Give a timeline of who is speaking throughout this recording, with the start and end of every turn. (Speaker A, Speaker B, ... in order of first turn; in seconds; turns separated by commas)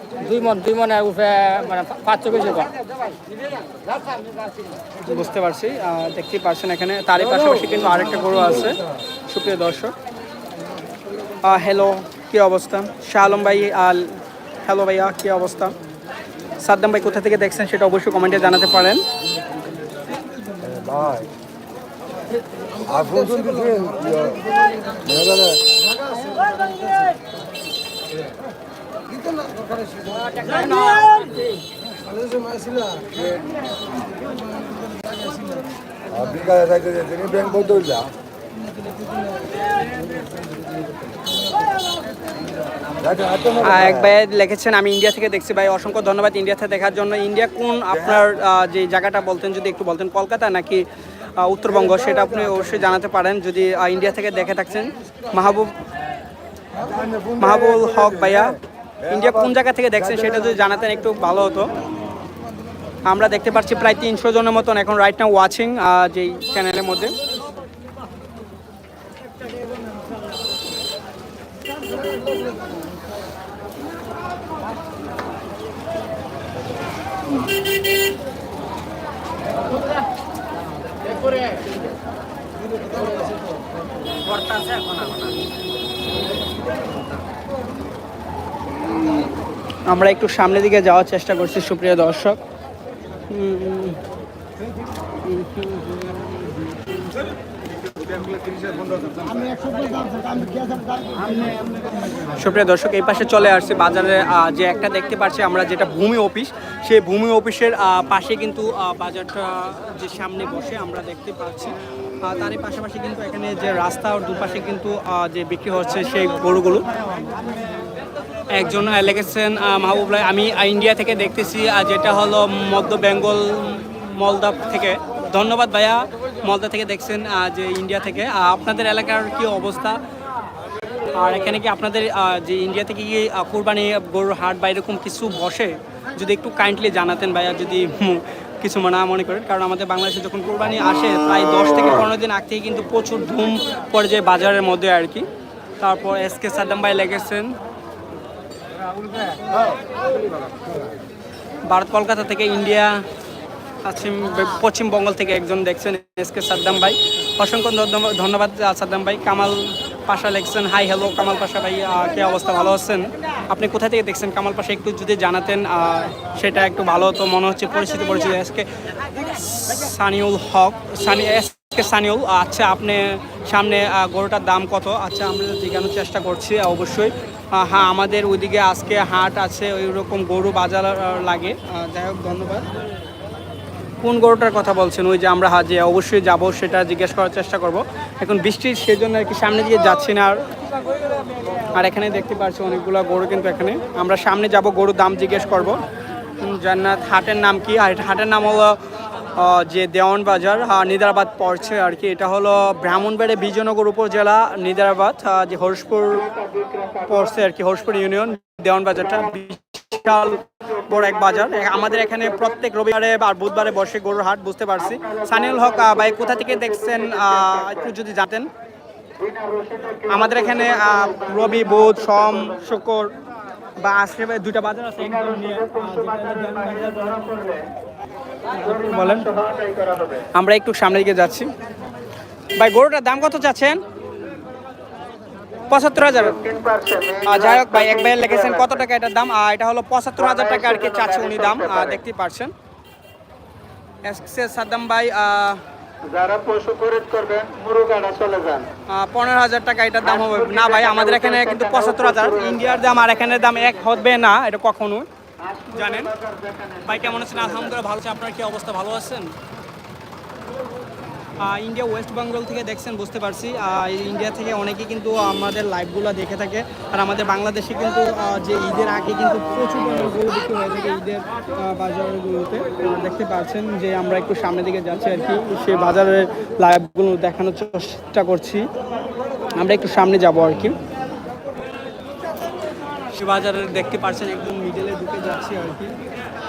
Speaker A: 0.2-3.1, Speaker B: 5.0-9.9, Speaker B: 11.4-15.7, Speaker B: 16.6-19.0, Speaker C: 20.6-21.3, Speaker C: 22.9-24.4, Speaker C: 25.0-25.6, Speaker A: 30.0-31.4, Speaker C: 36.1-38.1, Speaker C: 43.0-43.5, Speaker B: 43.5-50.9, Speaker B: 51.4-55.8, Speaker B: 57.4-61.7, Speaker B: 63.1-67.1, Speaker A: 84.4-85.1, Speaker B: 89.9-92.4, Speaker B: 93.3-94.0, Speaker B: 95.2-96.6, Speaker B: 99.2-99.8, Speaker B: 101.0-116.8, Speaker B: 118.5-130.0, Speaker B: 131.1-145.2, Speaker B: 145.8-147.5, Speaker B: 151.7-153.0, Speaker B: 153.8-182.7, Speaker B: 184.0-190.4, Speaker B: 191.7-195.8, Speaker B: 196.4-198.8, Speaker B: 199.3-206.3, Speaker D: 206.3-207.1, Speaker B: 207.1-218.5, Speaker D: 215.1-217.8, Speaker D: 219.2-222.3, Speaker B: 220.1-223.1, Speaker B: 223.8-227.2, Speaker D: 225.0-227.7, Speaker B: 228.5-229.3, Speaker D: 228.6-230.2, Speaker B: 230.3-231.5, Speaker B: 232.6-233.8, Speaker B: 235.7-236.5, Speaker D: 236.4-238.7, Speaker B: 237.2-242.5, Speaker D: 240.2-241.9, Speaker B: 244.0-245.6, Speaker D: 246.1-248.7, Speaker B: 248.9-255.1, Speaker D: 250.0-252.7, Speaker D: 255.4-257.0, Speaker B: 255.7-256.1, Speaker B: 256.8-259.3, Speaker B: 261.4-278.7, Speaker B: 279.6-280.8, Speaker B: 283.1-285.9